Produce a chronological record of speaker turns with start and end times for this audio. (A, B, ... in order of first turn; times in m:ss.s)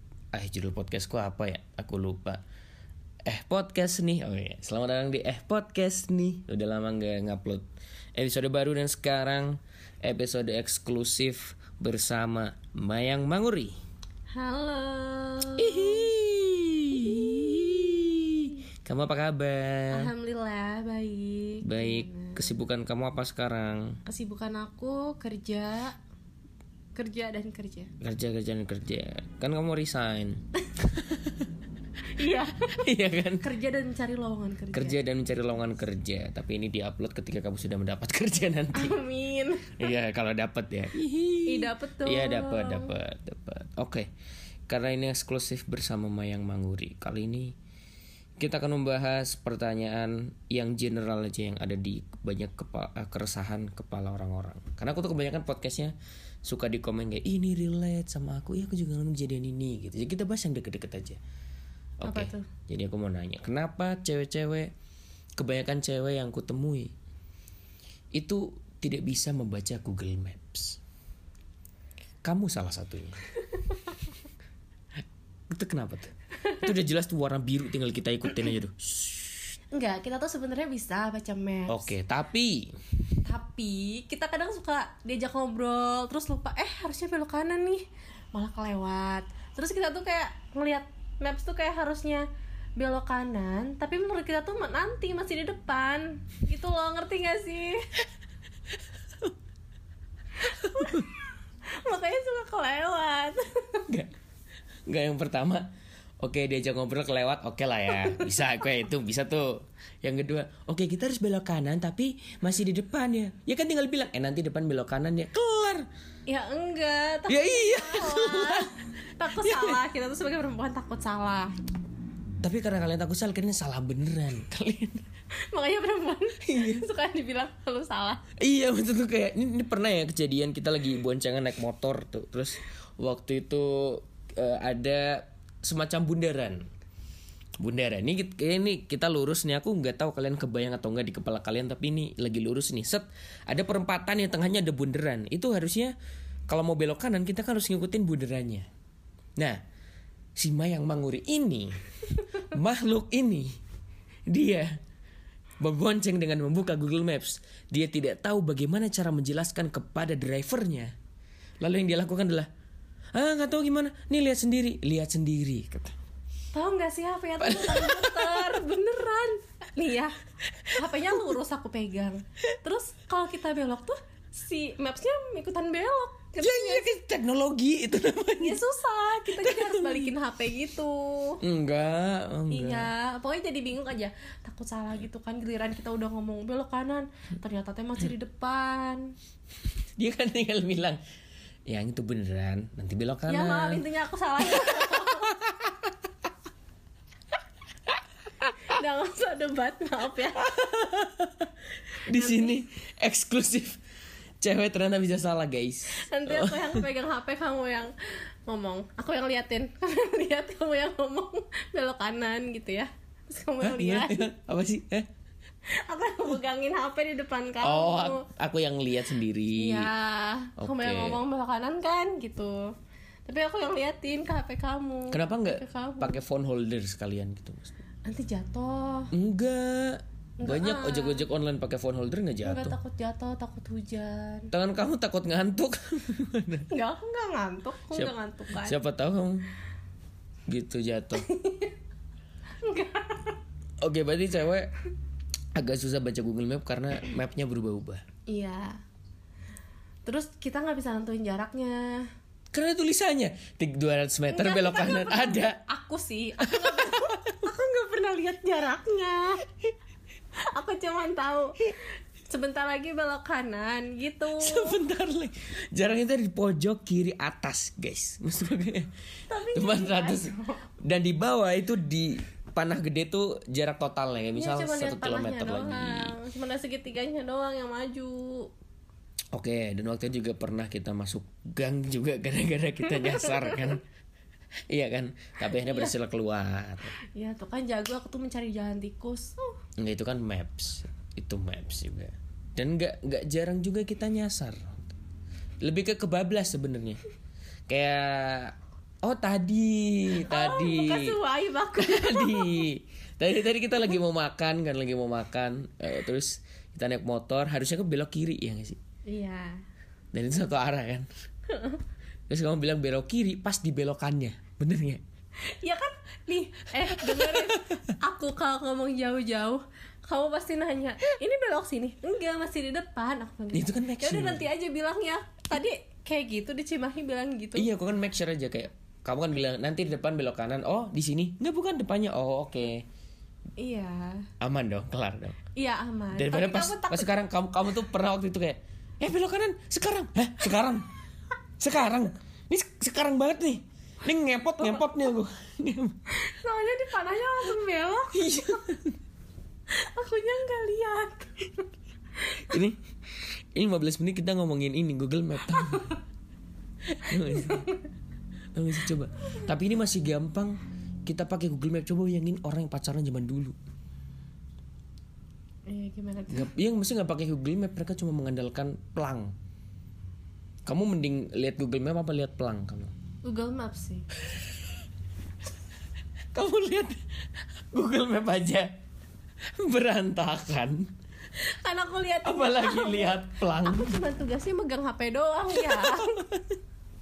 0:00.3-0:02.4 A
0:03.3-0:13.8 A
0:14.3-0:16.1 B
0:15.5-0:20.1 A
0:16.9-0:17.6 B
0:19.9-0:22.5 B
0:21.6-0:24.0 A
0:24.1-0:26.0 B
0:27.0-0:27.9 B
0:28.0-0:31.5 A
0:32.1-0:32.8 B
0:32.8-0:33.4 A
0:33.4-0:35.0 B
0:34.7-0:39.0 A
0:38.8-0:39.9 B
0:39.8-0:44.1 A
0:41.5-0:42.9 B
0:44.7-0:47.6 A
0:48.4-1:01.2 A
1:02.0-1:04.7 A
1:02.0-1:02.5 B
1:05.4-1:06.9 A
1:08.2-1:10.8 A
1:12.2-1:13.2 A
1:15.5-1:19.5 A
1:19.7-1:21.9 B
1:21.7-1:22.8 A
1:23.2-1:32.3 B
1:32.8-1:37.8 B
1:40.5-1:41.1 B
1:40.5-1:41.1 A
1:41.8-1:43.8 B
1:44.9-1:45.7 A
1:46.2-1:55.9 A
1:48.0-1:48.4 B
1:56.3-2:01.5 B
1:57.3-1:58.7 A
1:59.4-1:59.8 A
2:02.4-2:05.1 A
2:05.4-2:08.2 B
2:06.4-2:06.9 A
2:08.4-2:16.7 A
2:17.6-2:26.0 A
2:26.5-2:28.7 A
2:30.4-2:33.5 A
2:34.3-2:34.8 A
2:35.6-2:40.9 A
2:41.6-2:42.5 A
2:43.1-2:46.0 A
2:46.5-2:50.2 B
2:47.4-2:48.6 A
2:50.6-2:51.2 A
2:50.7-2:56.9 B
2:56.4-2:58.6 A
2:58.4-3:01.4 B
2:59.3-3:00.1 A
3:01.4-3:02.9 A
3:02.5-3:09.1 B
3:10.0-3:11.0 A
3:11.7-3:13.8 A
3:13.3-3:15.3 B
3:14.4-3:15.9 A
3:18.7-3:20.5 B
3:20.4-3:21.5 A
3:22.1-3:23.8 A
3:22.1-3:22.6 B
3:24.4-3:26.9 A
3:25.9-3:27.9 B
3:28.5-3:34.3 B
3:33.6-3:35.1 A
3:35.7-3:38.2 B
3:37.6-3:39.9 A
3:39.6-3:42.7 B
3:40.6-3:41.2 A
3:43.3-3:46.2 B
3:45.1-3:47.8 A
3:48.1-3:49.1 B
3:49.1-3:52.8 A
3:50.4-3:51.2 B
3:52.4-3:54.5 B
3:54.5-3:56.7 A
3:56.7-3:58.8 B
3:57.9-3:59.5 A
4:00.5-4:01.3 A
4:01.2-4:01.7 B
4:02.6-4:03.4 B
4:03.8-4:04.7 A
4:05.6-4:08.0 A
4:08.3-4:08.8 B
4:10.0-4:12.1 B
4:12.5-4:15.6 A
4:14.3-4:19.4 B
4:16.4-4:17.5 A
4:20.4-4:21.7 B
4:22.3-4:24.8 B
4:24.4-4:28.9 A
4:29.3-4:30.6 B
4:29.5-4:36.2 A
4:34.4-4:38.5 B
4:39.3-4:43.8 A
4:43.0-4:43.6 B
4:44.7-4:47.0 A
4:45.6-4:45.9 B
4:47.2-4:49.6 B
4:49.8-4:54.9 A
4:55.6-4:57.0 A
4:57.7-5:01.2 A
5:00.2-5:02.7 B
5:01.8-5:08.8 A
5:09.1-5:09.6 B
5:10.1-5:11.1 A
5:11.5-5:11.8 B
5:12.3-5:15.0 A
5:15.4-5:27.7 B
5:16.9-5:17.8 A
5:23.5-5:24.5 A
5:27.6-5:32.9 A
5:33.6-5:34.3 B
5:34.4-5:35.4 A
5:35.6-5:37.1 B
5:36.2-5:40.9 A
5:41.6-5:46.0 A
5:46.1-5:48.6 B
5:48.1-5:49.0 A
5:49.7-5:51.6 B
5:52.3-5:52.6 B
5:52.4-5:56.0 A
5:55.6-5:55.9 B
5:56.9-5:57.7 A
5:57.3-5:57.8 B
5:58.6-6:03.6 A
6:05.7-6:06.5 B
6:06.3-6:09.3 A
6:10.7-6:12.9 A
6:13.2-6:14.1 B
6:16.3-6:17.0 A
6:17.7-6:18.7 A
6:19.6-6:20.9 A
6:21.4-6:26.2 B
6:22.2-6:24.0 A
6:25.5-6:26.6 A